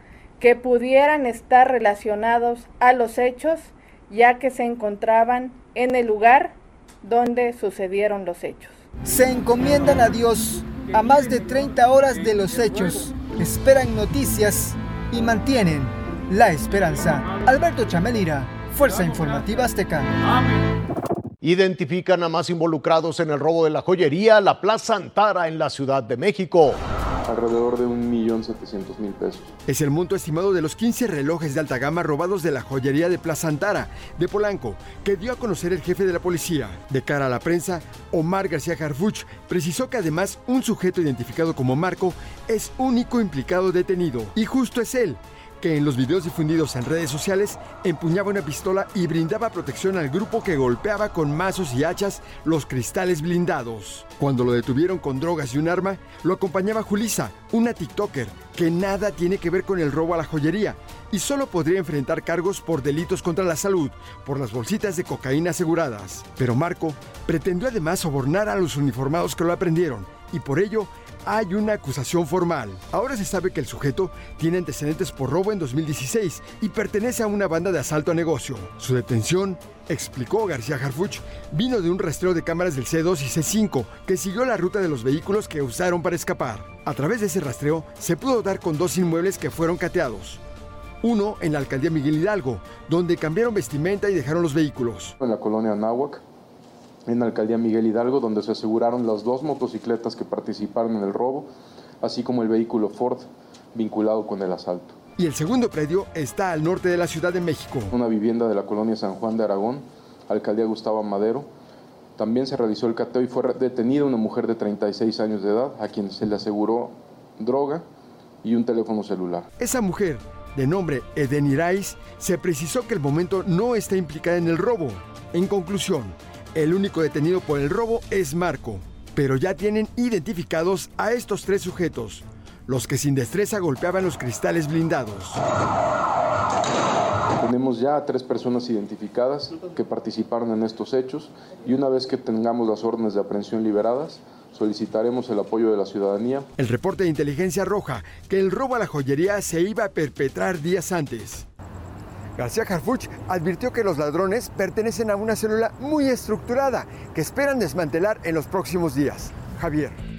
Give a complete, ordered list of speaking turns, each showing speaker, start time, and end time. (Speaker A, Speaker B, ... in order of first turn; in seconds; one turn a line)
Speaker A: 0.4-8.7
Speaker B: 9.0-20.1
Speaker C: 21.4-26.8
Speaker D: 27.3-29.5
Speaker E: 29.7-90.4
Speaker E: 91.0-95.1
Speaker D: 95.2-96.2
Speaker D: 97.1-101.5
Speaker D: 102.0-105.0
Speaker E: 105.2-107.9
Speaker D: 107.9-111.5
Speaker D: 112.2-117.8
Speaker D: 118.4-119.5
Speaker E: 119.6-135.4
Speaker D: 137.4-146.5
Speaker E: 146.6-151.4
Speaker E: 152.3-160.0